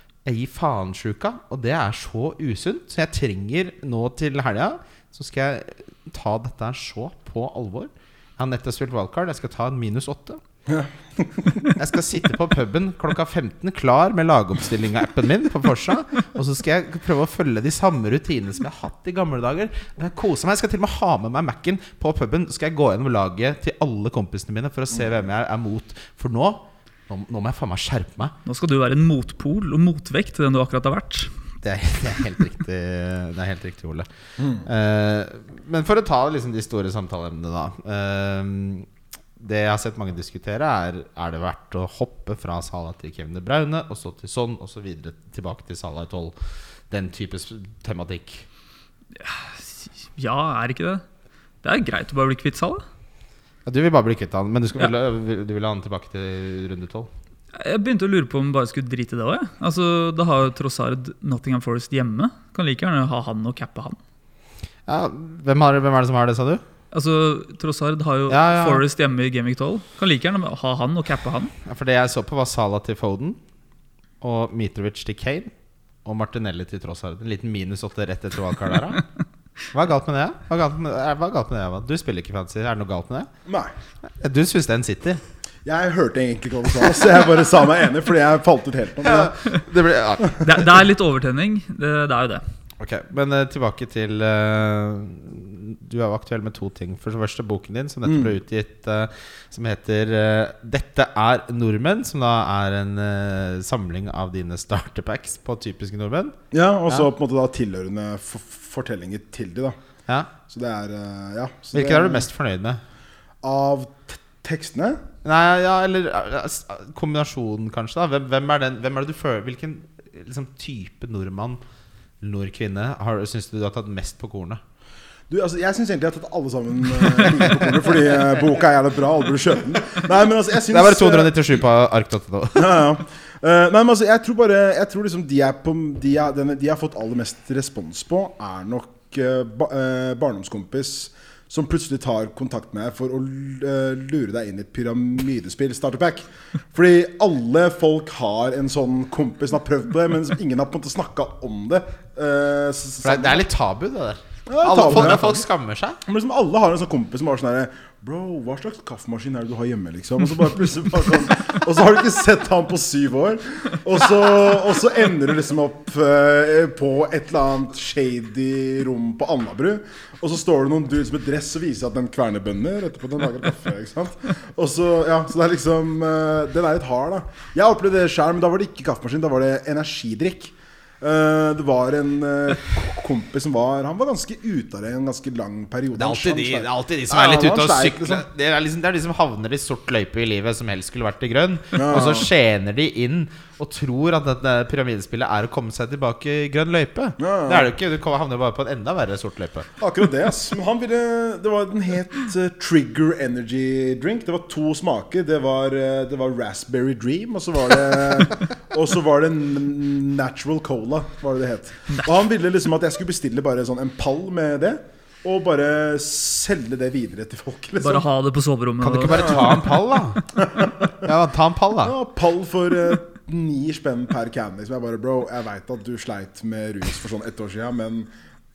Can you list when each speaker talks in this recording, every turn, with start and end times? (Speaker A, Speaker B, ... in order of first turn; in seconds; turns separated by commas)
Speaker A: 0.2-10.4, Speaker B: 10.7-11.4, Speaker A: 11.6-28.3, Speaker C: 28.4-31.3, Speaker A: 31.6-46.3, Speaker A: 46.9-48.5, Speaker C: 49.2-51.0, Speaker C: 51.6-52.8, Speaker A: 53.6-57.1, Speaker C: 57.5-64.0, Speaker A: 64.9-66.6, Speaker C: 66.9-71.5, Speaker A: 68.3-68.8, Speaker A: 71.6-73.4, Speaker A: 74.2-75.5, Speaker A: 76.0-79.0, Speaker A: 79.7-83.3, Speaker B: 83.5-83.7, Speaker A: 84.2-85.2, Speaker B: 85.6-89.3, Speaker A: 89.0-90.6, Speaker C: 90.3-92.4, Speaker A: 92.8-106.3, Speaker B: 98.0-98.3, Speaker B: 106.5-109.8, Speaker B: 110.5-112.2, Speaker A: 111.7-112.8, Speaker B: 113.4-115.0, Speaker A: 115.2-121.6, Speaker A: 122.2-124.6, Speaker B: 125.3-131.6, Speaker A: 130.7-132.9, Speaker B: 132.5-153.4, Speaker A: 153.0-156.0, Speaker B: 154.5-155.4, Speaker B: 156.1-188.2, Speaker A: 185.9-199.7, Speaker B: 191.7-192.3, Speaker B: 197.2-197.7, Speaker B: 199.8-218.1, Speaker C: 217.8-219.7, Speaker A: 218.8-220.2, Speaker B: 219.1-219.6, Speaker B: 220.3-220.9, Speaker A: 221.0-221.9, Speaker B: 221.8-228.1